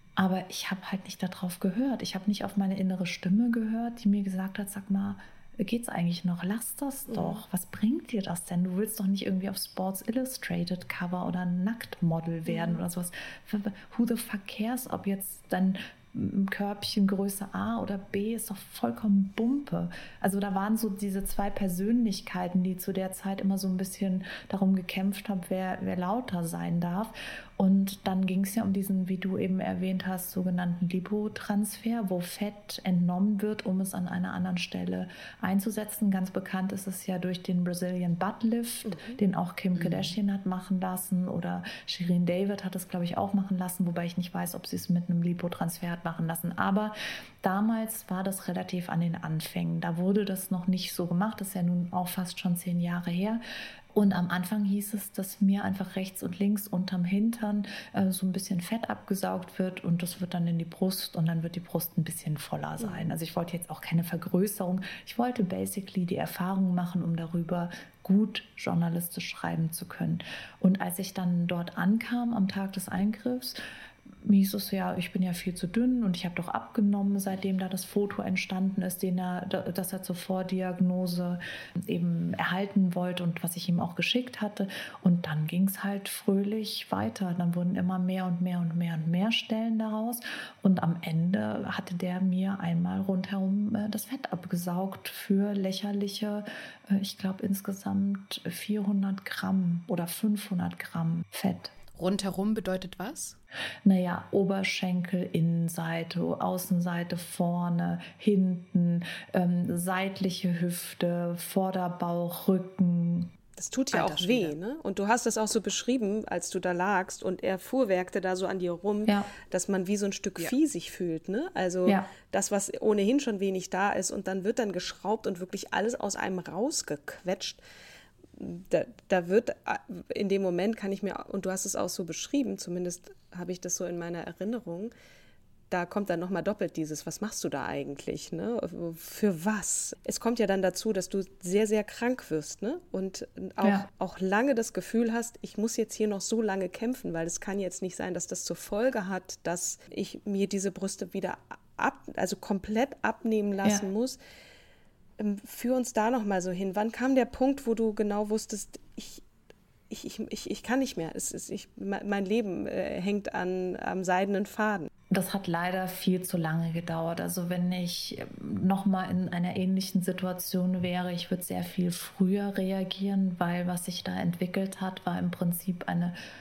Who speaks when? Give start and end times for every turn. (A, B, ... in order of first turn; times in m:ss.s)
0:00.2-0:53.4 A
0:07.1-0:07.4 B
0:12.5-0:12.8 B
0:38.8-0:39.2 B
0:39.7-0:40.2 C
0:53.9-1:13.6 A
1:02.8-1:03.1 B
1:14.2-1:41.7 A
1:41.9-1:43.4 C
1:43.8-1:53.3 A
1:53.6-2:07.6 B
1:53.9-1:54.6 C
1:59.1-1:59.3 A
2:08.4-2:14.9 B
2:15.7-2:34.2 B
2:35.2-2:39.2 B
2:39.9-2:44.9 B
2:45.1-2:56.2 A